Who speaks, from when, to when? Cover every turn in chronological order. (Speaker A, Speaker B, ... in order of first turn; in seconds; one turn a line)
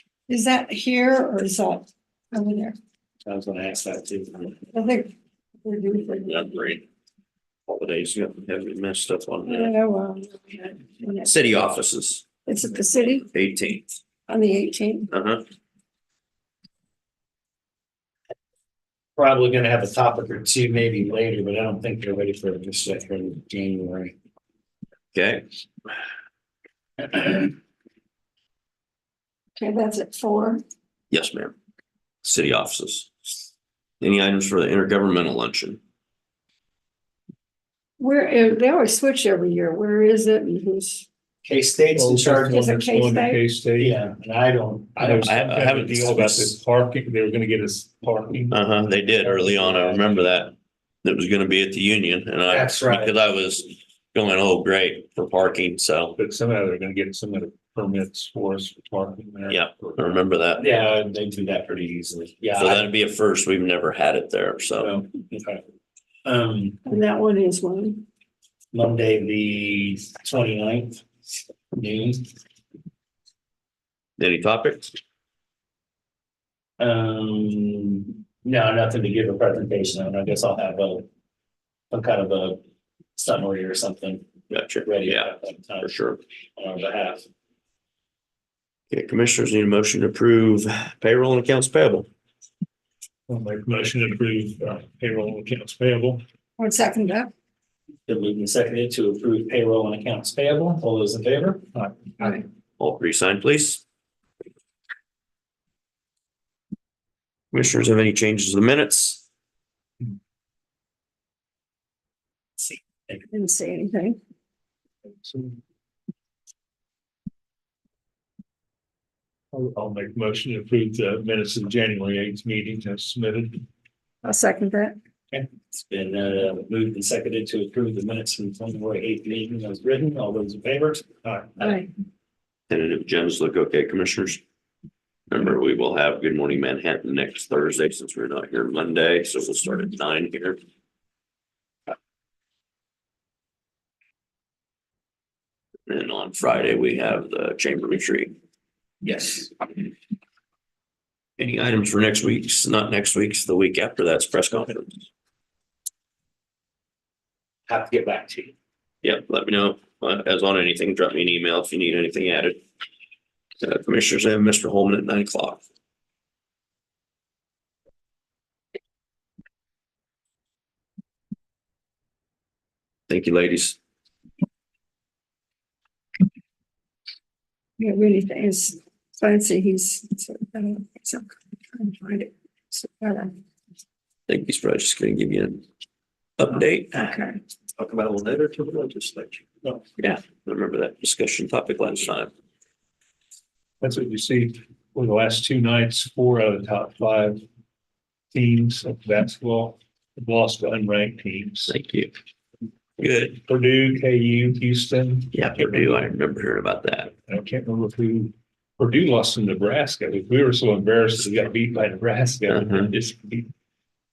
Speaker A: 0.3-2.8
Speaker B: 3.2-4.6
Speaker A: 4.7-6.5
Speaker C: 6.2-6.8
Speaker C: 7.7-9.7
Speaker A: 9.5-11.3
Speaker C: 11.2-12.2
Speaker A: 12.4-13.2
Speaker C: 13.2-13.9
Speaker A: 14.3-15.1
Speaker C: 15.1-15.4
Speaker B: 19.1-24.1
Speaker C: 25.1-25.4
Speaker B: 27.1-27.5
Speaker A: 29.6-30.6
Speaker C: 31.1-31.5
Speaker C: 32.2-33.1
Speaker C: 34.0-35.8
Speaker A: 38.0-41.0
Speaker B: 41.4-42.5
Speaker D: 41.9-44.0
Speaker A: 42.4-43.4
Speaker B: 43.8-45.3
Speaker D: 45.0-48.6
Speaker C: 45.2-46.6
Speaker C: 48.5-56.1
Speaker B: 49.2-50.2
Speaker B: 52.5-53.2
Speaker D: 56.1-60.0
Speaker C: 59.5-60.7
Speaker B: 60.6-62.9
Speaker C: 62.5-65.0
Speaker B: 64.8-65.6
Speaker B: 66.2-66.8
Speaker A: 66.8-68.0
Speaker B: 68.7-71.0
Speaker B: 71.7-72.3
Speaker C: 74.2-74.9
Speaker B: 76.8-81.1
Speaker B: 81.9-82.6
Speaker B: 83.2-84.3
Speaker C: 84.5-86.2
Speaker B: 84.8-85.9
Speaker B: 86.6-87.2
Speaker C: 88.9-92.1
Speaker D: 93.3-96.2
Speaker A: 96.6-97.3
Speaker B: 98.0-102.4
Speaker C: 102.8-103.8
Speaker C: 107.5-109.2
Speaker A: 113.3-114.2
Speaker D: 115.2-115.6
Speaker D: 119.5-123.6
Speaker A: 124.2-125.0
Speaker B: 125.3-131.9
Speaker A: 131.6-131.9
Speaker C: 132.7-134.4
Speaker C: 135.3-140.6
Speaker C: 145.9-148.3
Speaker B: 149.0-149.5
Speaker C: 151.4-155.0
Speaker B: 157.7-158.5
Speaker C: 159.0-162.6
Speaker C: 163.6-165.6
Speaker C: 173.1-173.8
Speaker A: 177.8-183.3
Speaker C: 184.3-185.6
Speaker C: 186.4-189.4
Speaker A: 186.9-187.4
Speaker C: 190.0-192.3
Speaker D: 193.8-197.4
Speaker D: 198.3-201.7
Speaker C: 201.7-202.1
Speaker C: 203.0-203.4
Speaker D: 203.4-206.0
Speaker C: 205.3-207.1
Speaker D: 207.3-213.5
Speaker C: 212.5-212.9